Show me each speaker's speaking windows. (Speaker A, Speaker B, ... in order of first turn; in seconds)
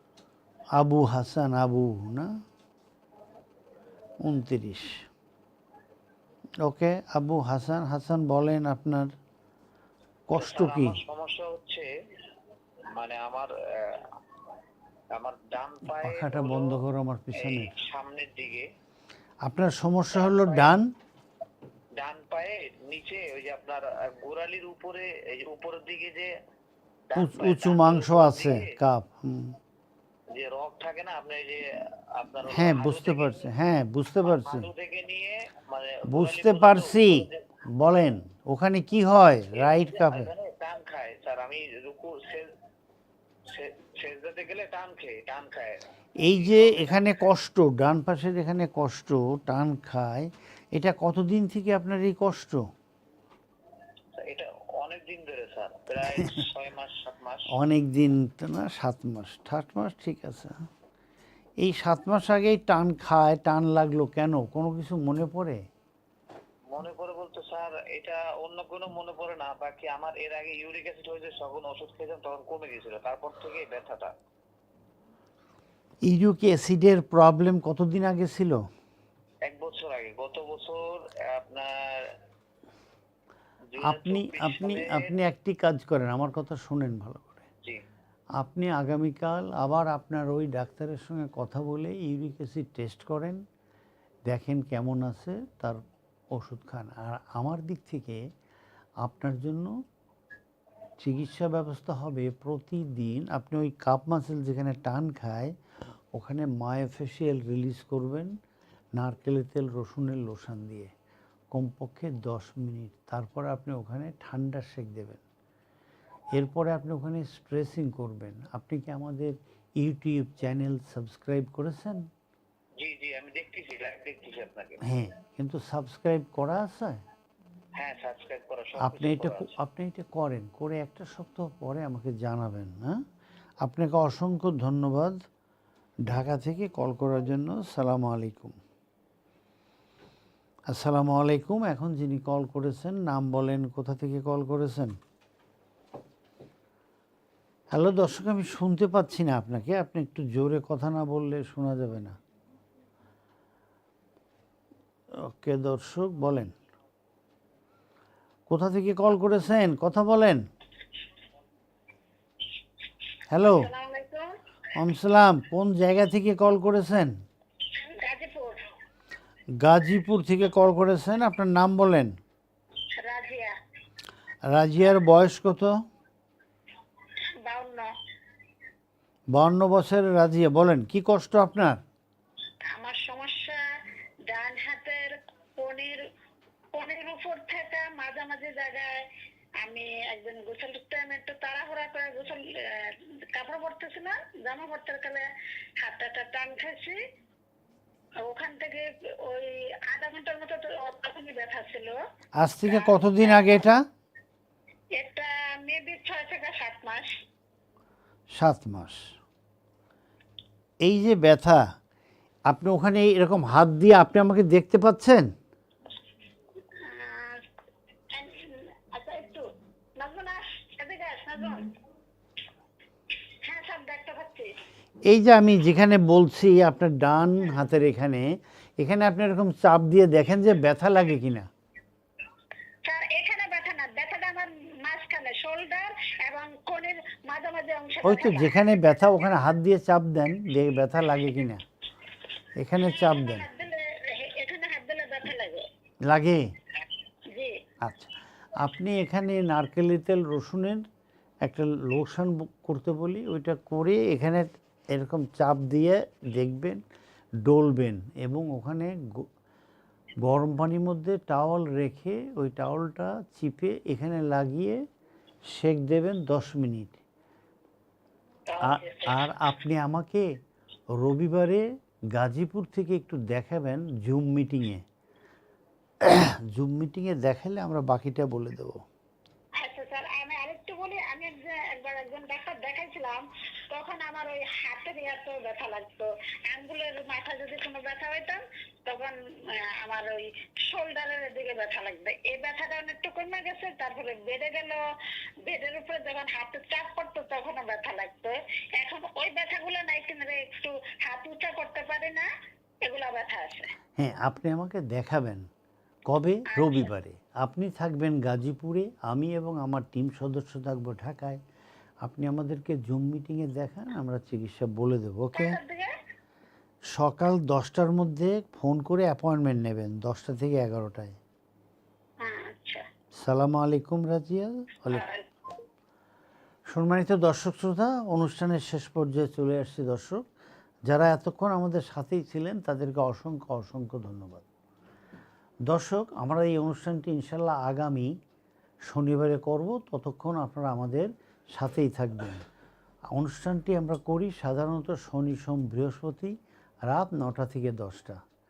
Speaker A: 0.7-2.3, 4.2-5.0, 6.6-9.1, 10.3-11.0, 15.9-17.7, 19.4-20.9, 27.1-29.6, 32.5-34.7, 36.1-37.2, 37.8-40.3, 46.2-52.6, 57.5-60.5, 61.6-65.6, 76.1-78.6, 83.8-87.5, 88.4-93.4, 94.3-95.8, 96.3-98.2, 99.0-99.7, 101.0-105.5, 106.1-108.3, 109.0-110.9, 111.5-115.2, 116.3-122.0, 124.8-127.0, 128.8-133.0, 133.6-135.2, 136.1-138.5, 140.7-144.9, 147.7-152.2, 155.2-156.5, 158.5-160.4, 163.3-163.7, 164.8-167.1, 169.6-172.2, 174.5-175.7, 179.3-181.8, 202.4-203.8, 208.4-209.1, 210.8-211.6, 212.5-215.3, 225.1-231.5, 238.0-241.6, 242.6-243.5, 246.1-246.4, 247.8-250.8, 251.4-256.8, 257.4-259.2, 260.2-264.8, 265.5-267.0, 268.6-270.2, 271.0-271.6, 272.1-274.8, 276.0-278.8, 304.0-305.4, 306.1-311.4, 312.0-315.6, 316.9-321.2, 323.2-325.1, 326.7-330.2, 330.9-334.4, 335.7-338.1, 338.9-342.4, 343.1-346.3, 346.9-348.2
Speaker B: 10.3-11.9, 12.9-14.0, 15.1-16.8, 17.4-18.6, 20.1-20.7, 22.0-26.3, 27.1-28.7, 30.3-31.6, 32.1-33.5, 34.2-37.4, 39.5-42.5, 43.5-47.0, 54.2-57.5, 66.7-74.1, 79.5-82.0, 83.7-85.1, 122.8-124.8, 127.8-129.5
Speaker C: 163.4-164.3, 167.7-168.6, 172.9-173.5, 177.4-177.9, 182.7-183.6, 184.3-186.0, 186.7-189.0, 189.6-195.2, 195.8-197.0, 198.2-202.0, 202.6-203.7, 204.9-207.1, 216.7-217.4, 218.1-219.4, 220.0-221.8, 223.4-224.5, 232.8-238.6, 242.8-245.7, 247.3-247.6, 268.5-269.3, 279.6-294.8, 295.4-302.3, 302.8-303.7, 306.5-306.9, 315.3-315.9, 322.2-322.8, 324.9-325.2